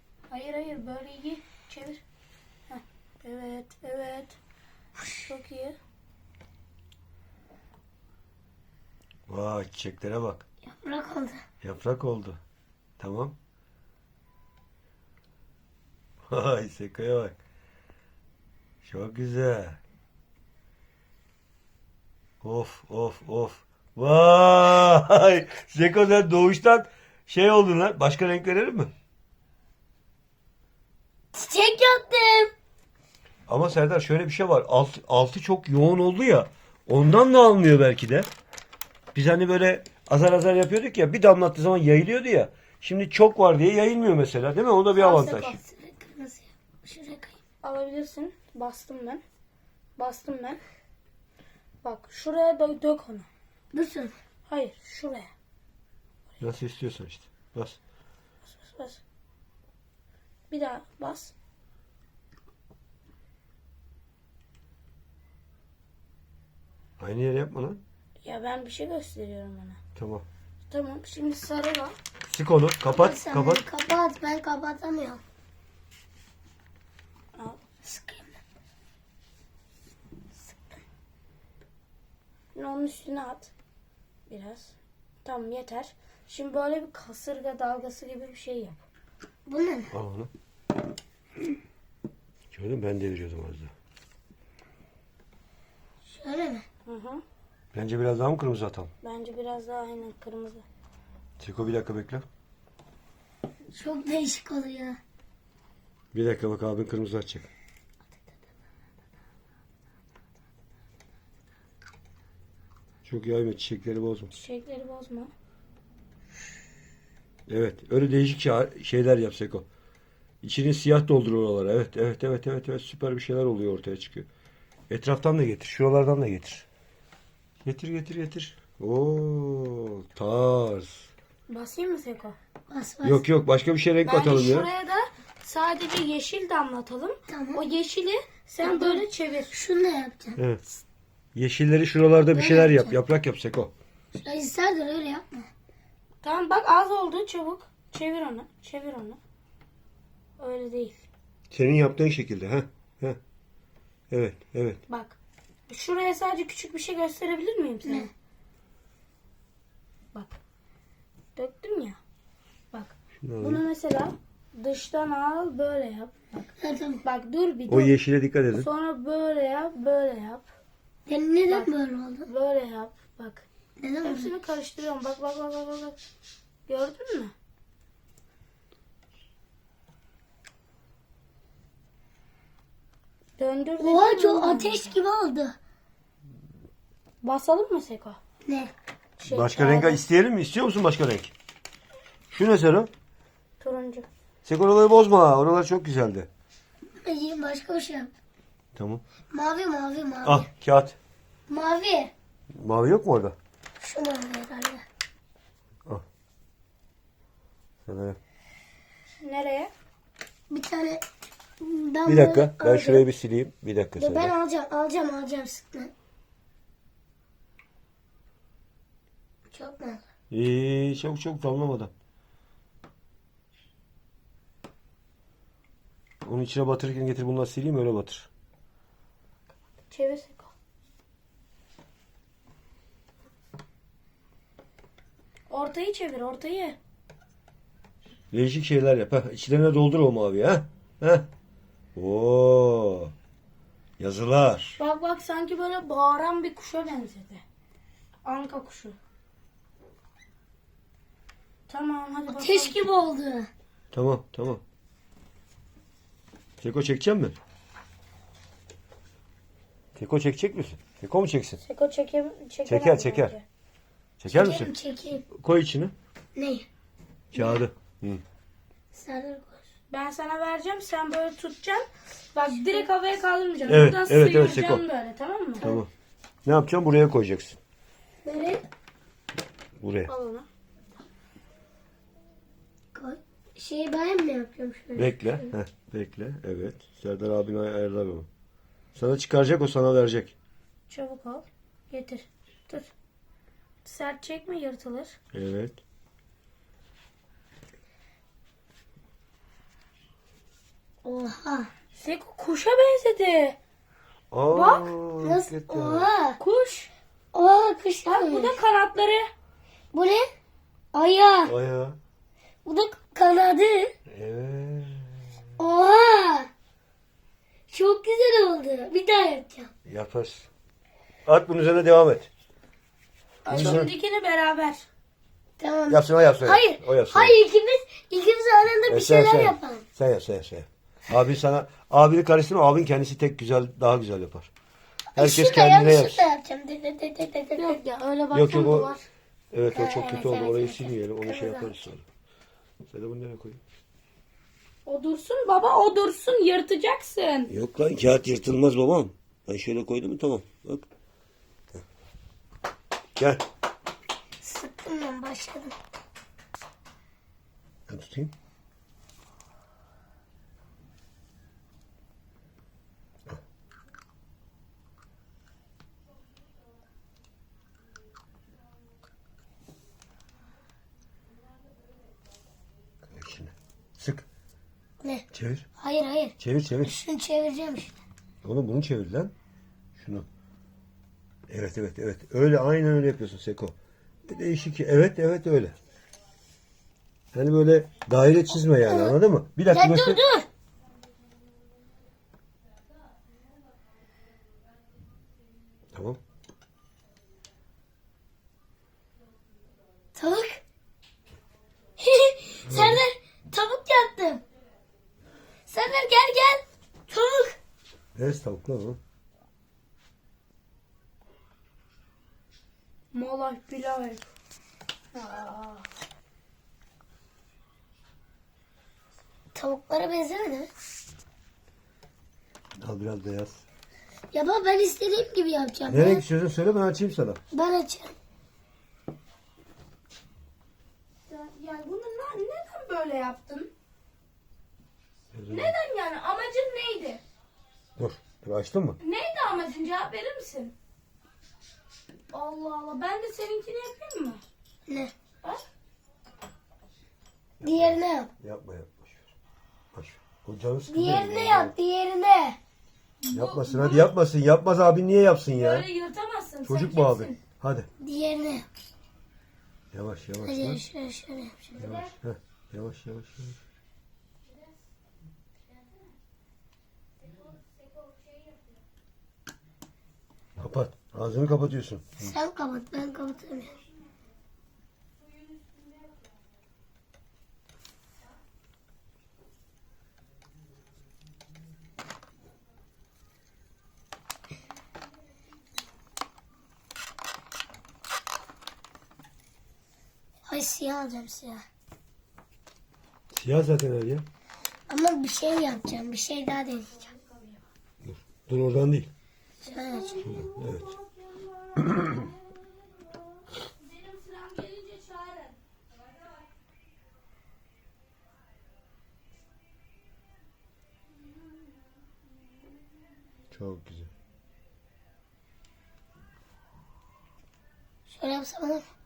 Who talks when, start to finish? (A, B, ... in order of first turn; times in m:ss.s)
0:00.3-0:02.0 A
0:02.7-0:04.4 A
0:05.1-0:05.8 A
0:09.3-0:10.4 B
0:10.6-0:11.4 C
0:11.6-0:12.4 B
0:13.0-0:13.4 B
0:16.3-0:17.4 B
0:18.8-0:19.8 B
0:22.4-0:28.9 B
0:31.3-0:32.5 C
0:33.5-0:38.3 B
0:39.1-0:45.6 B
0:44.9-0:45.6 A
0:45.4-0:47.4 C
0:47.6-0:49.2 A
0:50.0-0:50.6 A
0:51.8-0:53.3 A
0:53.7-0:54.1 C
0:54.4-0:55.3 A
0:56.4-0:57.8 B
0:58.4-0:59.0 A
1:00.5-1:01.3 A
1:07.0-1:07.8 B
1:08.2-1:09.8 A
1:10.0-1:10.2 B
1:10.7-1:12.0 A
1:12.2-1:13.6 B
1:12.8-1:15.2 C
1:17.3-1:17.6 A
1:17.8-1:18.4 C
1:22.5-1:23.5 A
1:24.3-1:28.8 A
1:29.5-1:29.9 C
1:29.9-1:30.3 B
1:32.5-1:33.7 B
1:36.0-1:36.6 C
1:36.8-1:37.2 A
1:37.7-1:38.9 B
1:39.0-1:40.6 A
1:41.4-1:42.2 B
1:43.7-1:45.0 C
1:46.1-1:47.5 B
1:53.0-1:54.3 B
1:54.3-1:55.3 A
1:57.5-1:59.6 B
2:00.4-2:04.3 B
2:04.9-2:06.6 B
2:07.6-2:11.1 B
2:11.5-2:12.4 A
2:12.7-2:13.2 C
2:13.0-2:14.7 B
2:14.0-2:19.5 A
2:17.3-2:17.6 C
2:18.6-2:20.4 C
2:21.3-2:23.7 B
2:22.3-2:23.0 C
2:24.1-2:25.5 C
2:26.2-2:29.2 A
2:30.4-2:31.1 A
2:31.5-2:33.2 B
2:34.1-2:34.8 B
2:34.9-2:35.2 A
2:35.7-2:38.1 A
2:37.8-2:38.1 C
2:41.3-2:42.0 A
2:42.7-2:46.4 A
2:43.2-2:43.6 B
2:46.6-2:47.0 C
2:47.0-2:47.9 A
2:47.7-2:48.7 B
2:48.5-2:50.5 A
2:51.0-2:52.3 C
2:52.2-2:53.4 A
2:53.8-2:54.3 C
2:54.0-2:56.0 A
2:56.7-2:57.3 A
3:03.4-3:04.9 A
3:03.8-3:05.5 C
3:07.2-3:08.2 A
3:08.4-3:08.7 C
3:09.2-3:10.0 A
3:09.3-3:11.3 B
3:12.3-3:12.9 B
3:13.6-3:14.1 A
3:14.4-3:16.3 B
3:17.0-3:18.1 C
3:18.8-3:19.0 B
3:19.3-3:20.5 C
3:20.2-3:21.0 B
3:21.5-3:22.1 C
3:22.6-3:23.4 B
3:23.8-3:24.8 C
3:27.9-3:28.2 B
3:29.2-3:29.7 A
3:30.5-3:31.0 C
3:31.6-3:33.0 C
3:32.0-3:34.3 B
3:34.0-3:35.9 C
3:39.5-3:40.0 C
3:40.3-3:41.9 B
3:46.2-3:48.3 B
3:49.9-3:50.5 A
3:55.5-3:56.8 A
3:58.3-4:01.3 B
4:02.0-4:03.1 B
4:04.0-4:04.8 B
4:04.8-4:07.4 A
4:08.2-4:09.0 A
4:11.7-4:12.8 A
4:12.3-4:13.5 C
4:13.9-4:14.6 B
4:16.6-4:17.4 B
4:19.9-4:21.6 B
4:21.6-4:23.4 A
4:22.6-4:23.4 B
4:24.2-4:24.7 B
4:24.3-4:25.3 C
4:25.3-4:25.9 B
4:26.4-4:26.6 C
4:27.3-4:28.2 B
4:27.4-4:27.6 C
4:28.9-4:29.6 C
4:29.9-4:35.6 A
4:33.6-4:34.8 B
4:35.6-4:35.8 C
4:35.6-4:35.9 B
4:36.4-4:37.6 B
4:38.2-4:38.6 C
4:39.8-4:40.1 B
4:40.1-4:40.5 A
4:42.9-4:45.5 C
4:45.0-4:48.3 B
4:48.9-4:50.3 B
4:50.9-4:52.9 A
4:53.8-4:55.2 A
4:55.3-4:55.8 B
5:01.0-5:01.7 C
5:01.9-5:03.6 A
5:04.3-5:06.1 B
5:04.5-5:04.9 A
5:05.2-5:06.4 C
5:06.4-5:06.9 A
5:07.3-5:08.6 C
5:08.0-5:09.3 A
5:09.9-5:10.2 C
5:10.9-5:11.5 C
5:11.4-5:12.0 B
5:12.6-5:13.9 C
5:14.1-5:15.2 B
5:15.6-5:16.5 C
5:17.7-5:19.7 C
5:19.8-5:20.5 B
5:21.2-5:22.3 B
5:23.4-5:24.9 A
5:23.5-5:23.9 B
5:25.6-5:29.8 C
5:25.9-5:27.3 B
5:28.9-5:34.5 B
5:35.1-5:37.8 C
5:35.2-5:36.2 B
5:37.6-5:39.1 A
5:38.3-5:38.9 B
5:39.5-5:42.0 B
5:39.7-5:41.7 C
5:42.9-5:43.6 B
5:44.8-5:47.5 A
5:47.5-5:50.8 B
5:53.2-5:53.4 B
5:54.4-5:55.7 C
5:57.9-5:58.3 B
6:13.0-6:14.2 B
6:15.0-6:15.3 C
6:15.3-6:15.6 B
6:15.8-6:18.0 C
6:16.4-6:16.9 B
6:18.4-6:19.3 B
6:20.0-6:20.2 B
6:21.5-6:23.7 B
6:24.2-6:25.8 B
6:27.3-6:30.2 B
6:28.8-6:29.2 C
6:29.7-6:30.4 C
6:35.9-6:36.2 B
6:40.2-6:40.6 C
6:42.0-6:44.4 C
6:42.7-6:43.0 B
6:45.7-6:47.6 C
6:48.2-6:49.0 B
6:53.1-6:54.2 A
6:55.1-6:55.9 A
6:59.5-7:00.7 C
7:02.8-7:03.6 B
7:04.3-7:06.2 C
7:05.9-7:07.4 B
7:07.5-7:08.1 C
7:11.3-7:13.7 A
7:15.3-7:15.8 B
7:15.5-7:17.2 A
7:18.0-7:19.0 B
7:19.0-7:20.7 A
7:22.3-7:24.4 A
7:24.9-7:25.1 C
7:27.6-7:29.3 B
7:27.6-7:28.3 C
7:29.9-7:31.7 B
7:30.9-7:32.6 C
7:33.2-7:34.1 A
7:33.3-7:35.9 B
7:35.5-7:37.4 A
7:36.6-7:37.9 B
7:38.0-7:38.6 C
7:39.9-7:40.8 B
7:40.4-7:41.8 C
7:41.8-7:42.1 A
7:41.8-7:43.6 B
7:47.3-7:48.6 A
7:50.6-7:52.3 B
7:52.2-7:53.7 C
7:55.6-7:55.9 A
8:10.5-8:11.6 C
8:13.3-8:14.2 B
8:14.9-8:17.0 C
8:16.9-8:17.6 A
8:18.0-8:19.1 B
8:19.6-8:20.3 C
8:19.6-8:25.6 A
8:20.2-8:20.9 B
8:33.5-8:34.1 B
8:38.1-8:38.8 C